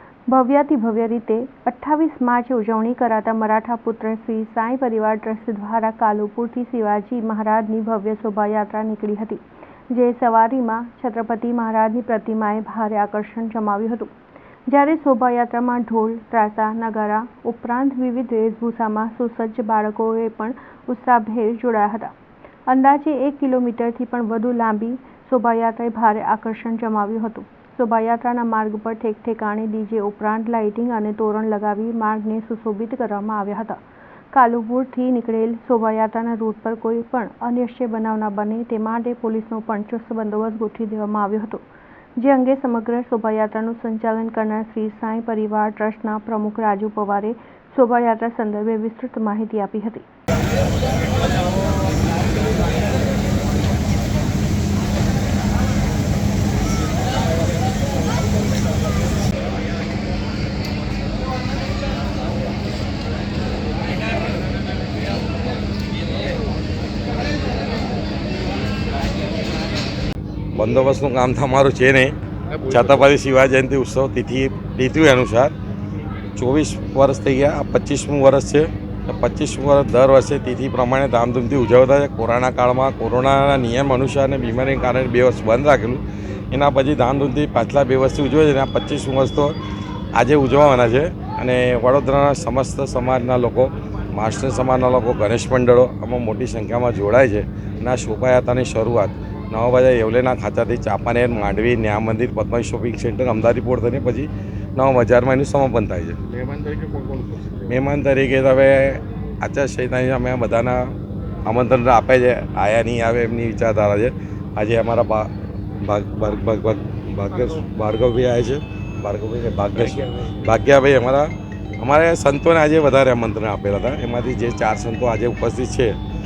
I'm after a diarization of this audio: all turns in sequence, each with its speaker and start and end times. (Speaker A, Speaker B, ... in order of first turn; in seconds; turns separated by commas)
Speaker A: 0.3-14.1, Speaker A: 14.7-22.1, Speaker A: 22.7-33.8, Speaker A: 34.3-41.6, Speaker A: 42.2-50.0, Speaker B: 70.6-72.1, Speaker C: 72.5-73.0, Speaker B: 72.7-75.5, Speaker B: 76.4-89.5, Speaker B: 90.1-106.2, Speaker C: 106.2-107.8, Speaker B: 107.7-110.9, Speaker B: 111.5-115.3, Speaker B: 115.8-126.0